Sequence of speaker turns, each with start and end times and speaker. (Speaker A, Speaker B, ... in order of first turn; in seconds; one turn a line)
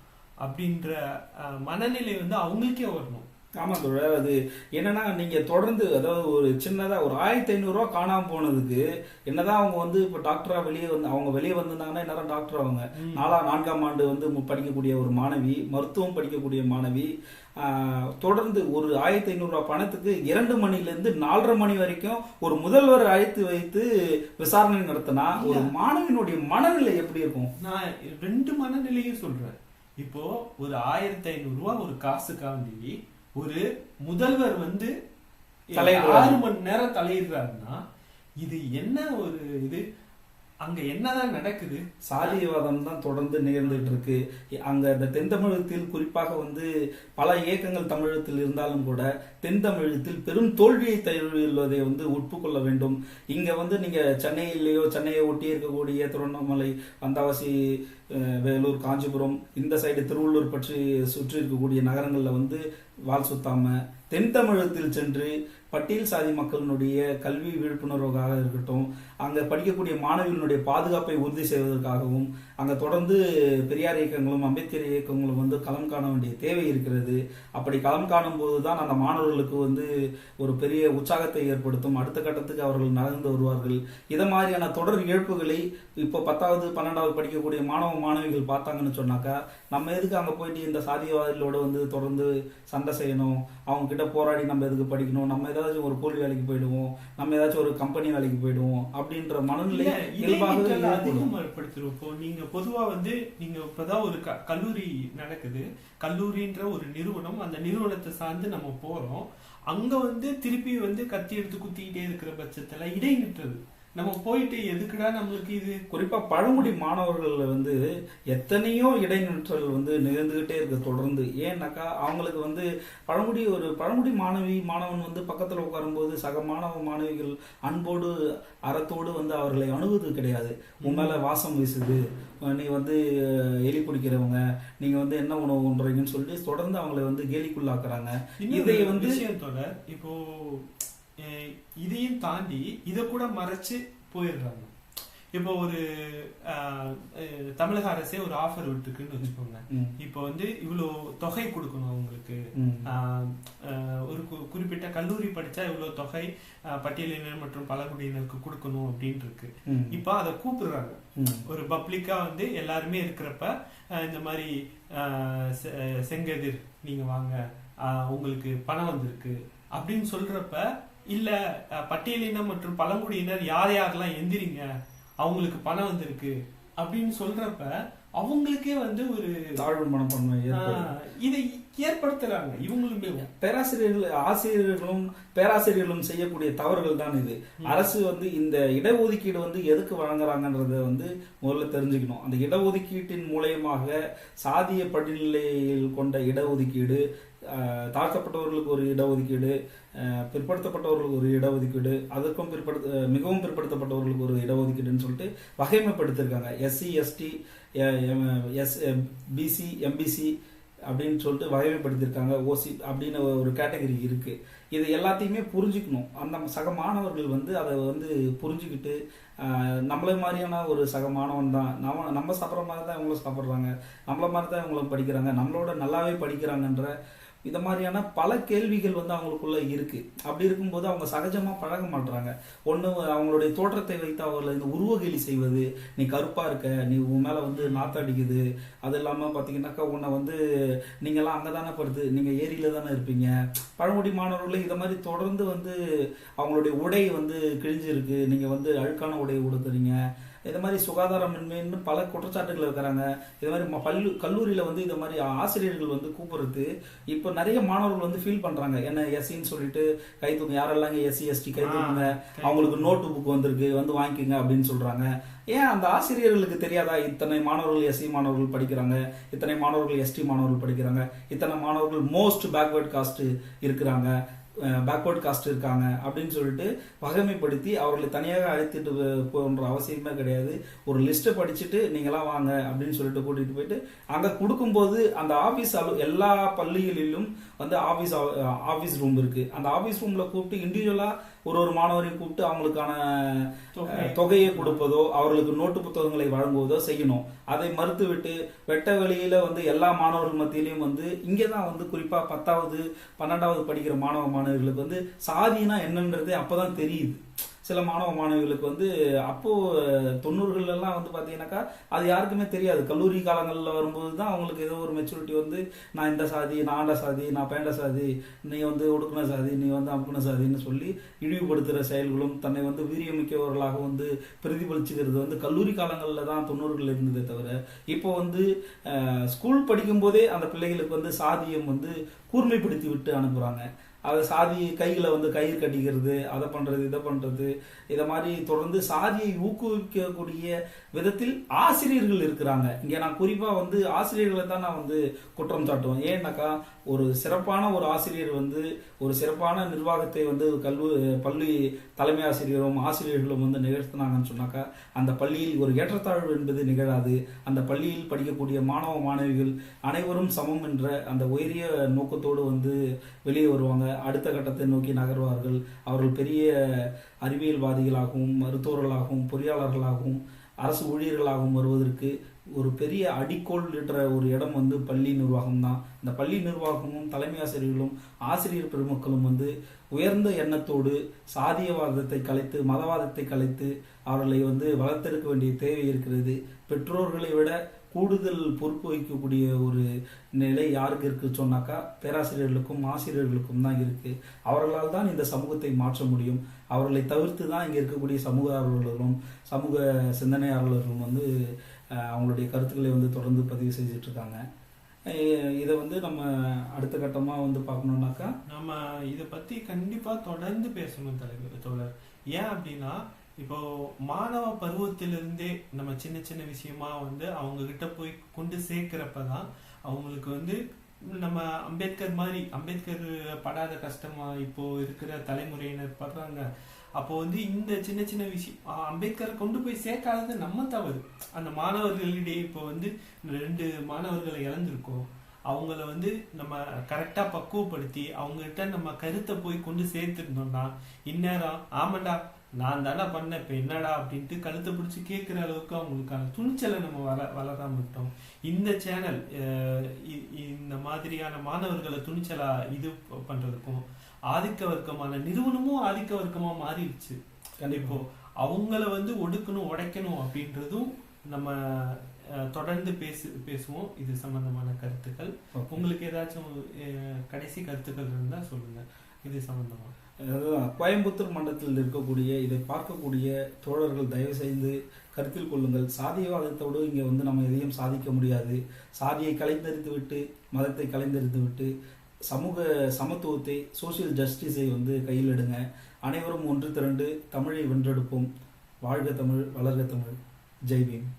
Speaker A: 0.4-3.3
Speaker B: 3.6-27.5
Speaker A: 13.0-13.3
Speaker A: 25.3-25.7
Speaker A: 27.6-34.9
Speaker A: 35.7-37.8
Speaker B: 35.8-36.4
Speaker A: 38.4-39.8
Speaker A: 40.6-42.4
Speaker B: 42.1-101.3
Speaker A: 43.7-43.9
Speaker A: 99.7-115.8
Speaker B: 115.9-117.8
Speaker B: 118.3-139.2
Speaker A: 130.8-131.2
Speaker A: 138.4-144.7
Speaker A: 145.3-174.7
Speaker B: 149.7-149.9
Speaker B: 152.6-152.9
Speaker B: 159.7-160.0
Speaker B: 161.2-161.4
Speaker A: 175.2-179.5
Speaker B: 179.6-180.9
Speaker A: 180.5-183.3
Speaker B: 183.1-210.3
Speaker B: 210.9-226.9
Speaker B: 227.5-240.4
Speaker A: 237.5-238.0
Speaker B: 241.0-245.8
Speaker B: 246.4-274.1
Speaker A: 261.6-263.0
Speaker B: 274.7-401.3
Speaker A: 293.8-294.8
Speaker B: 401.9-404.4
Speaker B: 405.1-408.3
Speaker A: 408.5-426.5
Speaker A: 427.0-457.2
Speaker B: 457.6-458.0
Speaker A: 457.7-469.9
Speaker B: 465.6-465.8
Speaker B: 470.2-481.7
Speaker B: 482.3-488.3
Speaker B: 488.9-491.1